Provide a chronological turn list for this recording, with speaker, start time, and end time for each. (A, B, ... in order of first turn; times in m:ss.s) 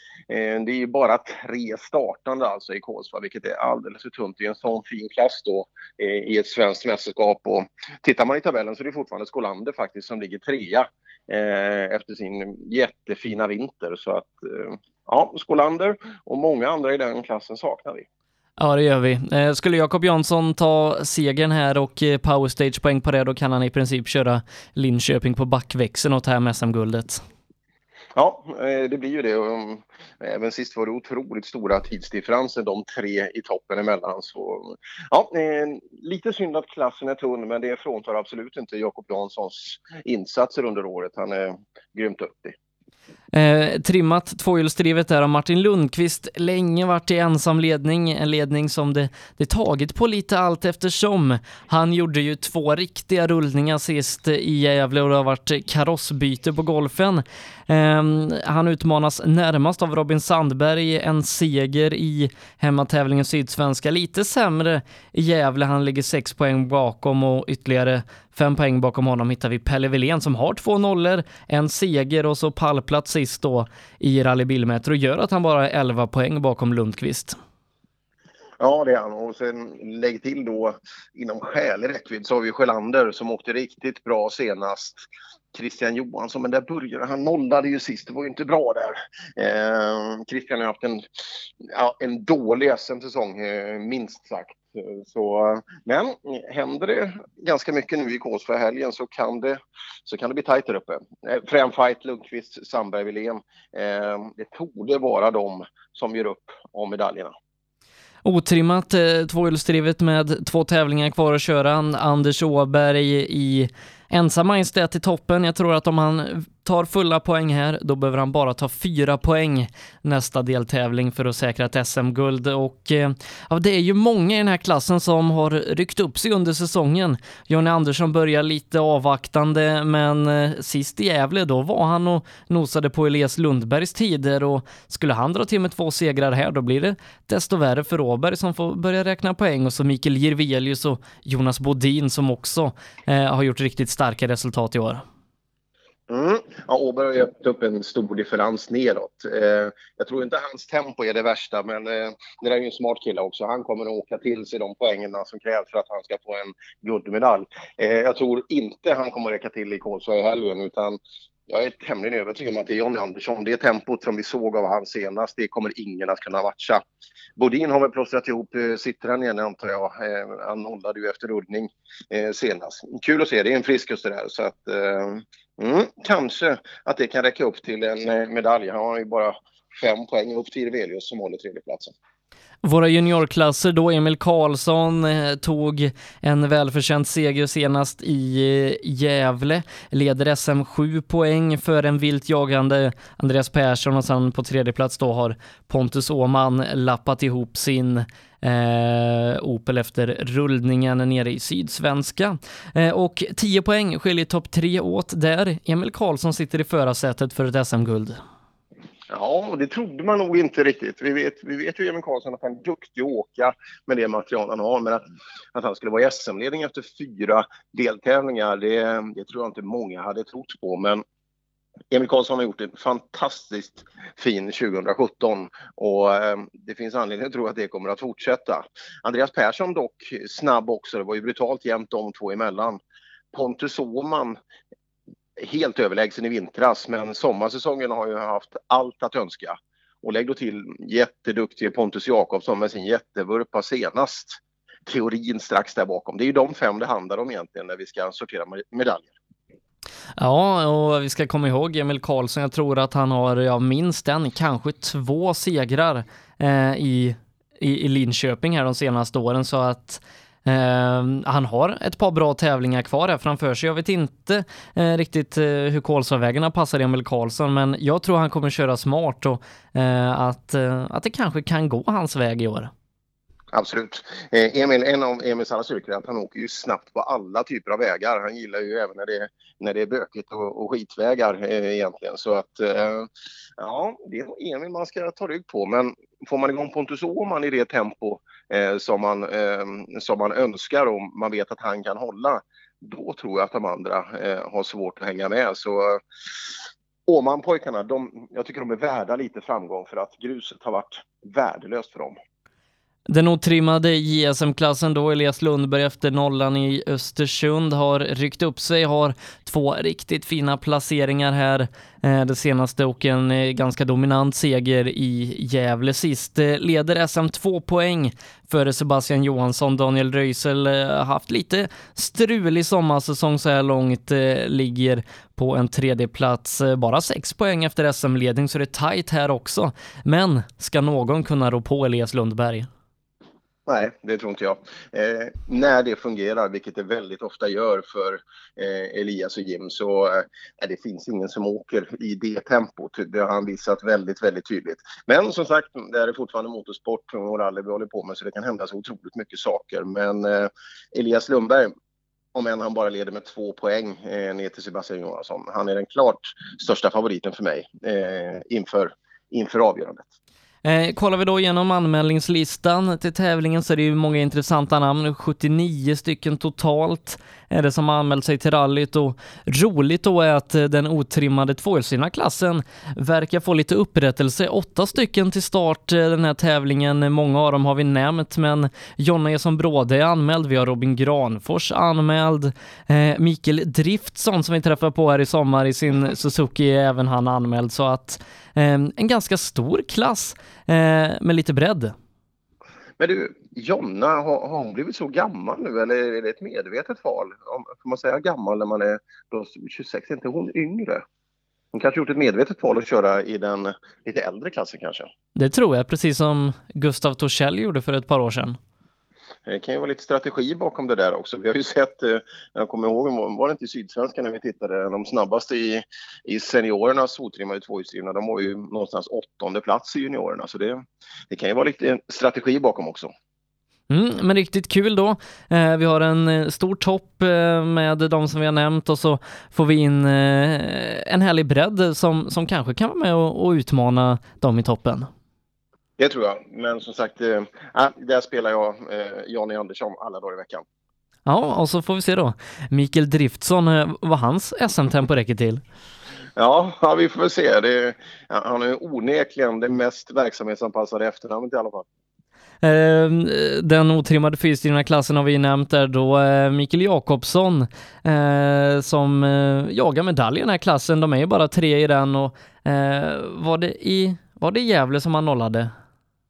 0:00.3-0:18.0 A
0:18.6-0:27.2 B
0:28.1-0:42.6 A
0:43.3-1:17.4 B
1:18.6-1:25.0 A
1:25.5-1:31.0 A
1:31.6-1:47.3 A
1:48.2-2:25.0 B
2:26.1-2:46.8 A
2:47.4-3:01.9 A
3:02.6-3:28.2 B
3:29.1-3:41.0 A
3:41.9-3:52.8 A
3:53.3-3:54.4 A
3:55.4-4:09.1 A
4:10.2-4:32.7 B
4:33.5-4:56.0 A
4:57.1-5:02.2 A
5:03.1-5:32.7 B
5:33.6-5:51.7 A
5:52.3-6:00.1 A
6:00.6-6:31.9 B
6:33.0-6:41.0 A
6:41.7-6:45.1 A
6:45.4-6:48.6 B
6:49.4-7:03.1 A
7:03.9-7:15.1 B
7:16.0-7:20.6 A
7:21.2-7:25.6 B
7:26.4-7:31.8 A
7:32.6-7:45.7 B